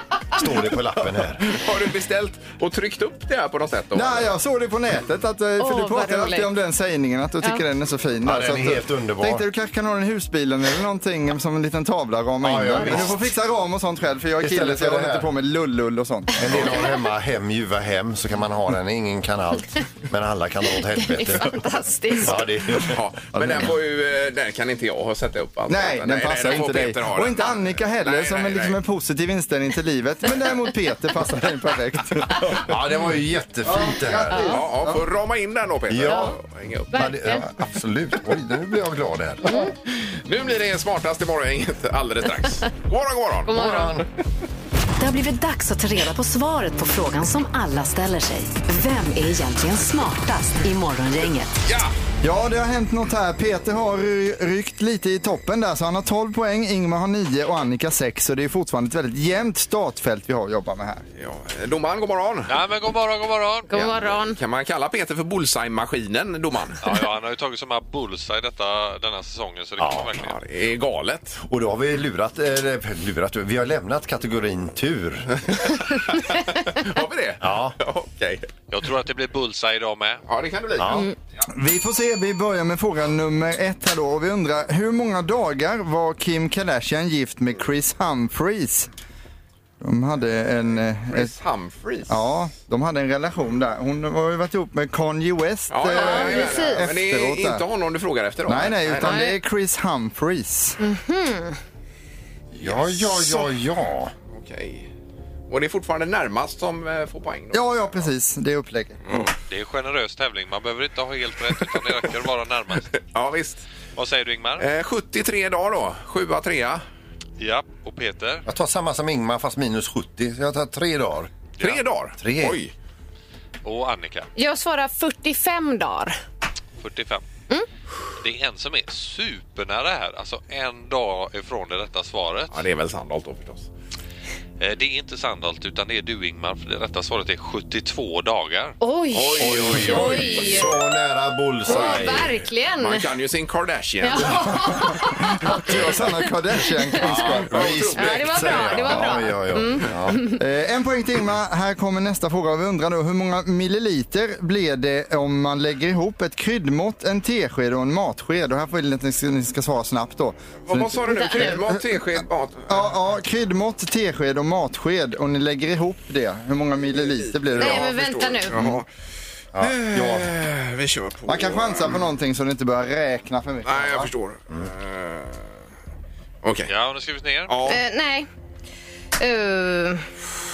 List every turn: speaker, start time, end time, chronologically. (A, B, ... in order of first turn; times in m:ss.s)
0:00.3-0:01.4 A
0:01.4-0:04.3 B
0:03.9-0:16.6 C
0:05.6-0:06.5 D
0:08.2-0:09.4 A
0:12.4-0:13.2 A
0:14.4-0:15.3 A
0:16.4-0:21.6 A
0:20.9-0:22.4 D
0:22.2-0:23.0 A
0:22.9-0:28.8 B
0:23.4-0:23.7 C
0:25.7-0:32.6 C
0:32.6-0:34.5 A
0:33.6-0:35.0 C
0:34.3-0:34.6 D
0:34.5-0:37.2 B
0:35.9-0:36.3 A
0:36.0-0:36.3 D
0:36.9-0:37.4 D
0:36.9-0:39.7 A
0:39.5-0:39.7 D
0:39.9-0:43.8 B
0:43.5-0:44.0 D
0:43.5-0:44.0 A
0:45.0-0:51.5 E
0:51.6-0:51.9 B
0:52.2-1:01.0 C
1:01.2-1:02.5 B
1:02.5-1:03.7 F
1:03.7-1:04.4 D
1:03.7-1:06.8 B
1:06.8-1:10.4 F
1:09.8-1:10.1 A
1:10.2-1:11.4 B
1:11.4-1:15.4 A
1:15.5-1:18.5 B
1:17.4-1:17.8 A
1:18.7-1:20.2 F
1:20.3-1:21.1 B
1:20.8-1:21.1 A
1:21.5-1:28.9 C
1:29.8-1:31.3 C
1:31.1-1:32.2 B
1:32.1-1:37.6 C
1:35.7-1:39.2 B
1:35.9-1:36.8 D
1:38.4-1:40.8 C
1:39.0-1:39.4 D
1:40.8-1:41.6 D
1:42.5-1:44.1 A
1:42.6-1:43.5 B
1:44.3-1:44.9 B
1:45.5-1:48.1 B
1:47.5-1:49.0 C
1:49.5-1:52.9 F
1:52.9-1:53.6 B
1:54.0-1:54.6 F
1:54.6-1:56.8 B
1:57.4-1:58.4 F
1:58.5-2:01.3 A
2:01.6-2:02.7 B
2:02.2-2:02.6 A
2:03.6-2:04.3 F
2:04.4-2:06.2 D
2:06.8-2:07.2 F
2:08.2-2:12.6 F
2:12.5-2:13.7 B
2:14.6-2:18.7 F
2:18.8-2:20.7 D
2:19.1-2:20.7 B
2:19.4-2:22.3 A
2:21.6-2:23.0 D
2:22.8-2:24.7 B
2:24.0-2:25.6 D
2:25.6-2:27.8 C
2:25.6-2:25.9 B
2:27.0-2:30.2 A
2:27.1-2:29.0 B
2:27.9-2:30.4 D
2:30.4-2:47.9 C
2:40.7-2:42.9 B
2:41.1-2:41.6 D
2:47.2-2:48.8 B
2:47.6-2:48.6 D
2:49.5-2:50.3 A
2:49.6-2:52.0 B
2:51.3-2:54.1 C
2:53.6-2:55.5 B
2:56.4-2:56.7 B
2:56.7-2:57.5 F
2:57.5-2:57.8 B
2:57.6-2:58.3 D
2:59.2-3:00.1 D